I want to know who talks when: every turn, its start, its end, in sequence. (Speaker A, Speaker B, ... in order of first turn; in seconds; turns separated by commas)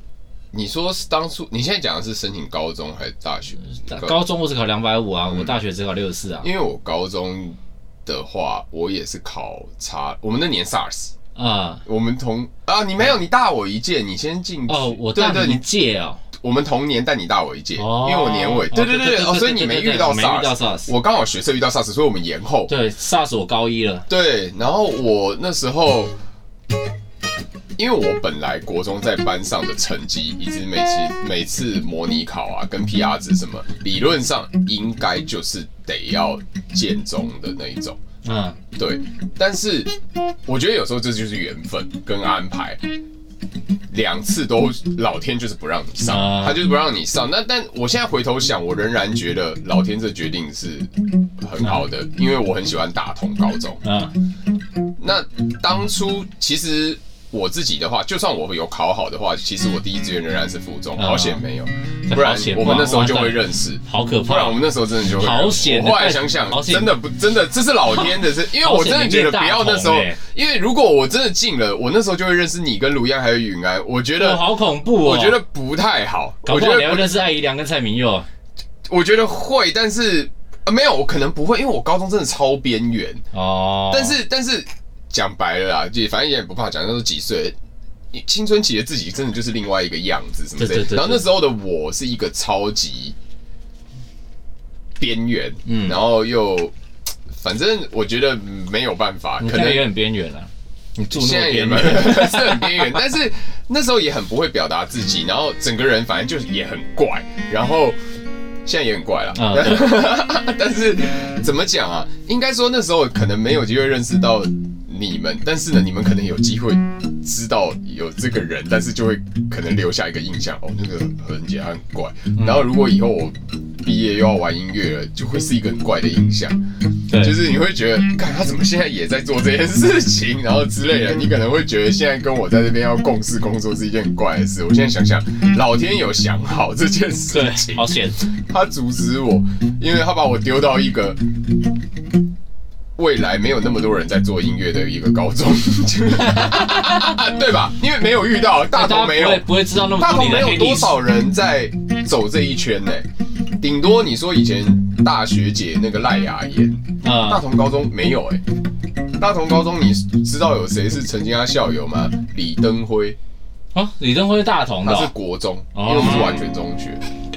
Speaker A: 0.5-4.2, Speaker B: 3.7-6.5, Speaker A: 6.4-11.1, Speaker B: 11.3-11.8, Speaker A: 11.8-15.7, Speaker B: 14.7-16.2, Speaker A: 16.4-22.7, Speaker B: 17.8-20.9, Speaker B: 22.7-24.1, Speaker A: 24.1-26.1, Speaker A: 27.8-38.0, Speaker B: 38.2-38.6, Speaker A: 38.7-42.8, Speaker A: 43.9-53.8, Speaker B: 46.0-46.6, Speaker B: 51.6-51.8, Speaker B: 53.8-54.1, Speaker A: 55.0-74.5, Speaker B: 61.0-61.4, Speaker B: 62.1-67.0, Speaker B: 68.6-70.2, Speaker B: 74.2-75.4, Speaker A: 75.0-77.1, Speaker B: 76.4-78.3, Speaker A: 78.9-83.2, Speaker B: 83.3-84.2, Speaker A: 83.9-87.5, Speaker A: 88.1-93.2, Speaker B: 90.6-91.3, Speaker A: 95.0-96.7, Speaker B: 95.7-96.0, Speaker A: 97.3-99.9, Speaker B: 99.4-103.0, Speaker A: 101.1-108.0, Speaker A: 108.6-126.6, Speaker B: 109.3-110.0, Speaker B: 122.3-122.7, Speaker B: 127.1-127.4, Speaker A: 127.1-141.2, Speaker B: 137.3-138.3, Speaker A: 142.9-158.4, Speaker B: 146.2-147.0, Speaker B: 148.7-151.0, Speaker B: 157.0-157.4, Speaker A: 159.2-163.2, Speaker B: 163.7-165.1, Speaker A: 164.8-167.0, Speaker B: 165.7-166.4